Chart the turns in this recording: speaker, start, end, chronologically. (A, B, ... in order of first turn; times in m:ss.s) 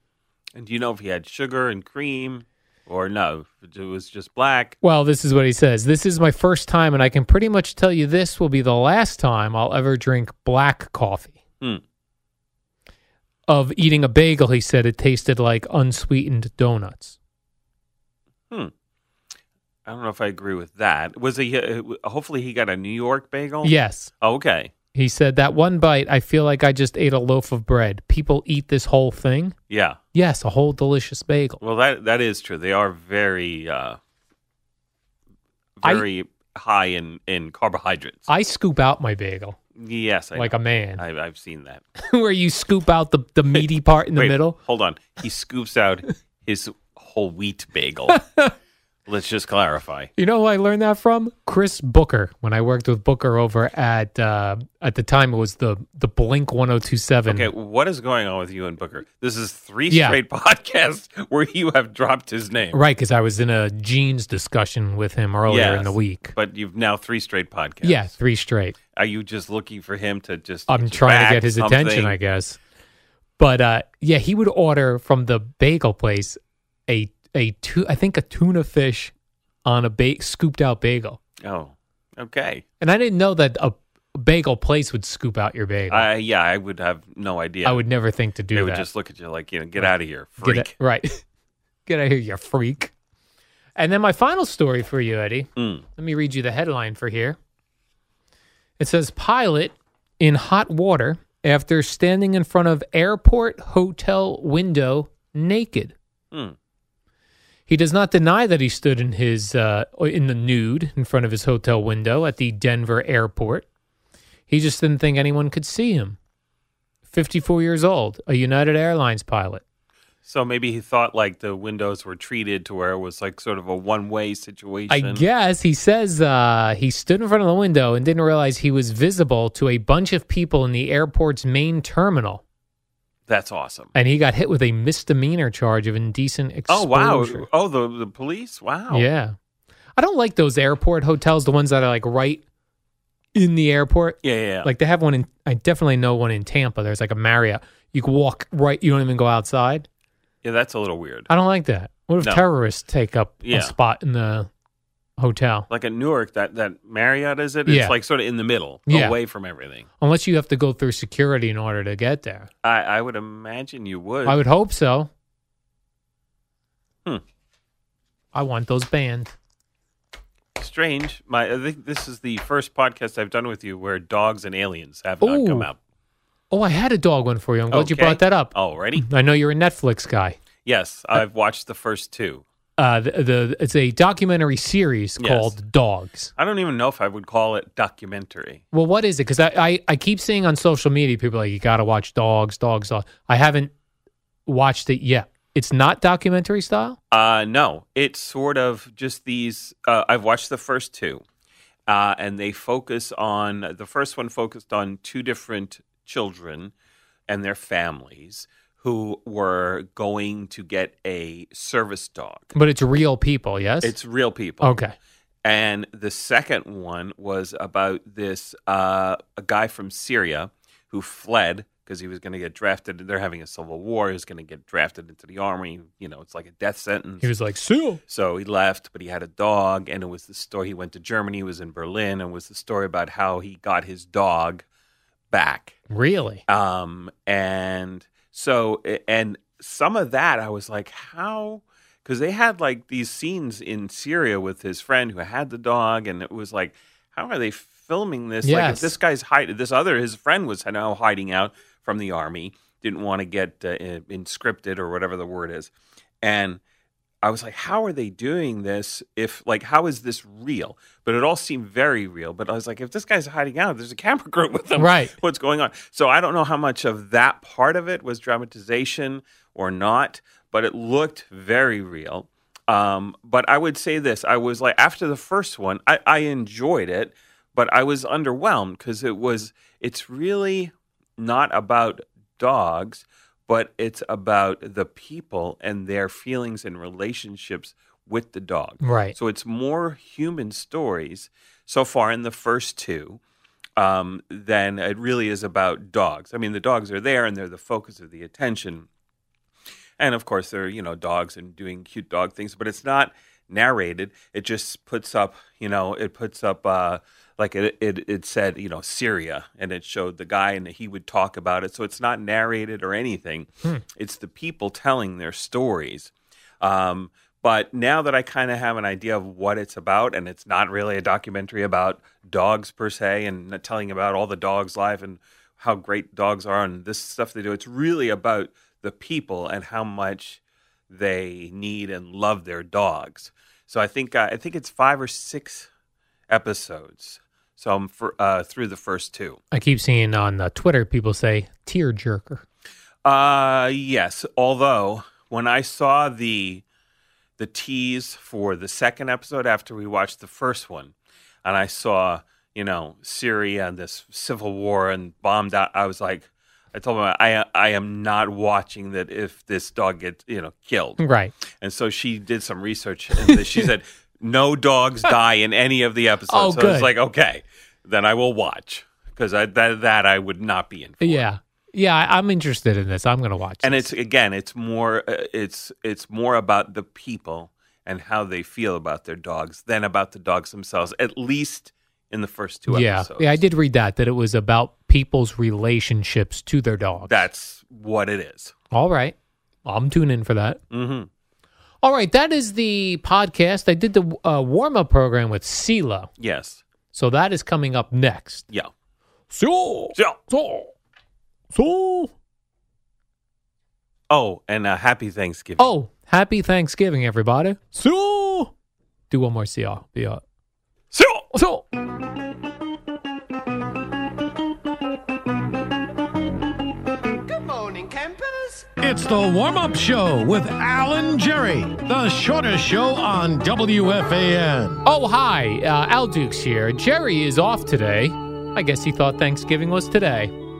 0:00.6-0:04.8 A
0:04.8-0:11.4 B
0:13.5-0:17.2 B
0:19.9-0:24.7 A
0:23.6-0:24.1 B
0:24.9-0:29.6 B
0:29.7-0:30.0 A
0:30.1-0:31.6 B
0:31.6-0:34.0 A
0:35.8-0:38.3 A
0:38.3-0:39.6 B
0:39.8-0:41.8 A
0:40.4-0:41.0 B
0:42.0-0:44.6 B
0:43.6-0:48.2 A
0:48.1-0:48.5 B
0:49.1-0:50.1 A
0:50.2-0:57.5 B
0:57.3-1:02.8 A
0:59.9-1:00.2 B
1:02.7-1:06.4 B
1:05.5-1:08.1 A
1:07.8-1:08.8 B
1:08.9-1:12.2 A
1:10.7-1:12.6 B
1:13.4-1:19.1 B
1:19.6-1:21.2 B
1:21.4-1:22.6 A
1:22.8-1:26.1 B
1:25.9-1:27.8 A
1:27.6-1:28.9 B
1:28.5-1:30.7 A
1:29.8-1:31.2 B
1:31.9-1:32.9 B
1:33.8-1:37.4 B
1:35.6-1:35.8 A
1:38.8-1:46.0 B
1:47.7-1:53.7 B
1:54.5-1:56.2 B
1:57.1-1:59.6 B
2:00.2-2:05.2 A
2:04.9-2:12.4 B
2:13.3-2:13.9 A
2:14.0-2:17.5 B
2:16.7-2:19.1 A
2:18.9-2:19.4 B
2:20.0-2:22.4 B
2:23.4-2:29.9 B
2:24.2-2:24.7 A
2:30.4-2:31.3 A
2:31.3-2:34.5 B
2:32.2-2:32.4 A
2:33.4-2:33.8 A
2:35.2-2:35.7 B
2:35.7-2:39.9 A
2:37.7-2:37.9 B
2:38.9-2:39.2 B
2:40.0-2:42.5 B
2:42.6-2:44.4 A
2:44.3-2:45.1 B
2:48.3-2:49.3 B
2:50.6-2:55.8 A
2:55.2-2:55.7 B
2:56.5-3:00.4 B
2:57.7-2:59.1 A
3:00.6-3:02.4 A
3:02.8-3:06.3 B
3:05.2-3:05.6 A
3:06.4-3:08.6 A
3:08.7-3:13.7 B
3:14.5-3:17.0 B
3:17.1-3:21.2 A
3:21.9-3:26.7 A
3:27.3-3:32.5 A
3:32.6-3:33.9 B
3:33.8-3:34.8 A
3:34.6-3:34.9 B
3:35.4-3:47.3 A
3:47.2-3:48.0 B
3:48.1-3:54.6 A
3:55.3-3:55.8 A
3:55.9-3:56.4 B
3:56.5-4:16.6 A
4:08.4-4:09.0 B
4:17.2-4:53.2 A
4:24.8-4:25.1 B
4:48.8-4:49.2 B
4:53.8-4:58.9 A
5:00.0-5:35.7 A
5:36.3-5:39.4 A
5:39.5-5:42.4 B
5:43.0-5:46.6 A
5:47.4-5:50.9 A
5:51.4-6:01.0 A
6:01.0-6:01.3 B
6:01.6-6:11.3 A
6:03.3-6:03.7 B
6:06.3-6:06.9 B
6:11.0-6:13.9 B
6:13.6-6:23.4 A
6:22.7-6:27.3 B
6:27.1-6:28.5 A
6:28.7-6:30.6 B
6:30.7-6:31.1 A
6:31.8-6:36.1 B
6:36.2-6:36.6 A
6:36.9-6:38.5 B
6:39.3-6:40.7 B
6:41.5-6:42.1 B
6:44.1-6:45.7 A
6:45.6-6:48.5 B
6:49.1-6:50.2 B
6:50.9-6:51.3 A
6:51.3-6:51.6 B
6:57.2-7:04.8 C
7:04.8-7:10.3 B